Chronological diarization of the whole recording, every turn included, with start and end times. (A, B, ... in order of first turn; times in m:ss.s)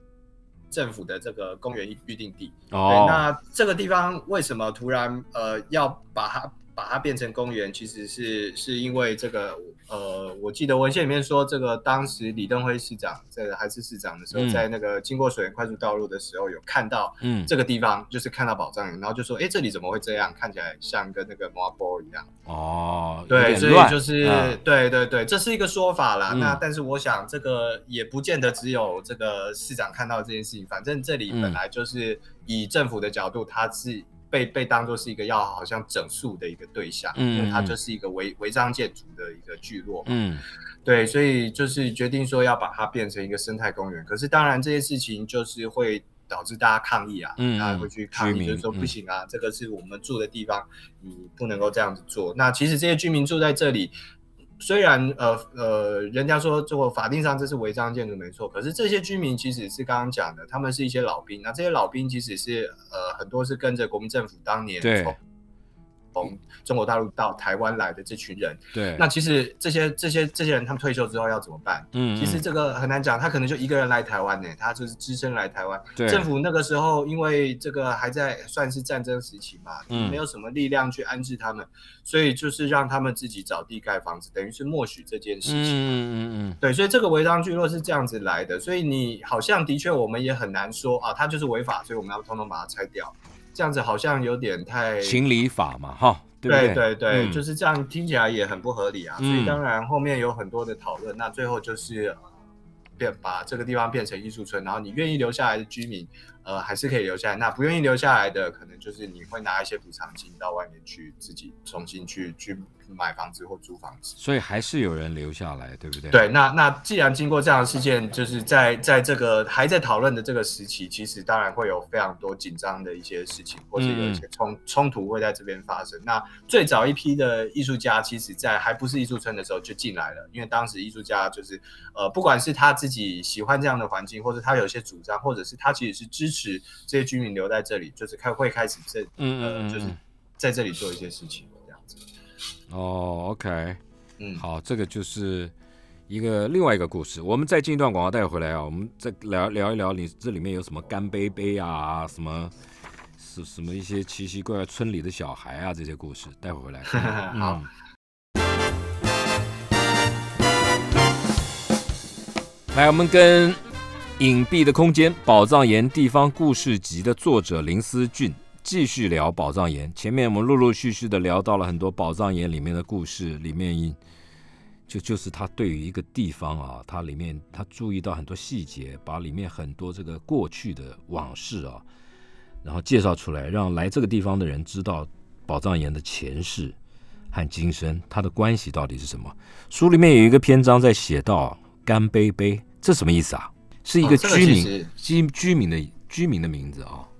0:00.7-0:22.3 A
0:02.7-0:03.2 B
0:14.3-0:14.6 B
0:17.2-0:17.5 B
0:22.4-0:24.6 B
0:23.3-0:40.2 A
0:26.3-0:26.6 B
0:31.3-0:31.6 B
0:37.1-0:37.8 B
0:40.0-0:40.4 B
0:40.8-0:53.9 A
0:47.4-0:48.9 B
0:54.6-1:05.2 A
1:04.8-1:05.2 B
1:06.1-1:25.8 A
1:08.7-1:09.0 B
1:11.9-1:12.4 B
1:16.0-1:16.2 B
1:19.9-1:20.2 B
1:25.4-1:26.6 B
1:26.6-1:35.2 A
1:35.0-1:37.4 B
1:36.5-1:42.2 A
1:39.2-1:39.6 B
1:43.0-1:54.2 A
1:54.2-1:56.2 B
1:56.1-2:22.0 A
2:03.8-2:04.2 B
2:19.2-2:20.0 B
2:22.7-2:23.8 B
2:24.2-2:24.4 A
2:24.4-2:25.5 B
2:26.1-2:32.5 B
2:33.2-2:37.6 B
2:36.9-2:37.6 A
2:42.7-2:43.6 B
2:44.2-2:54.0 B
2:54.9-3:01.8 B
3:02.6-3:06.7 B
3:07.3-3:17.1 B
3:14.0-3:14.9 A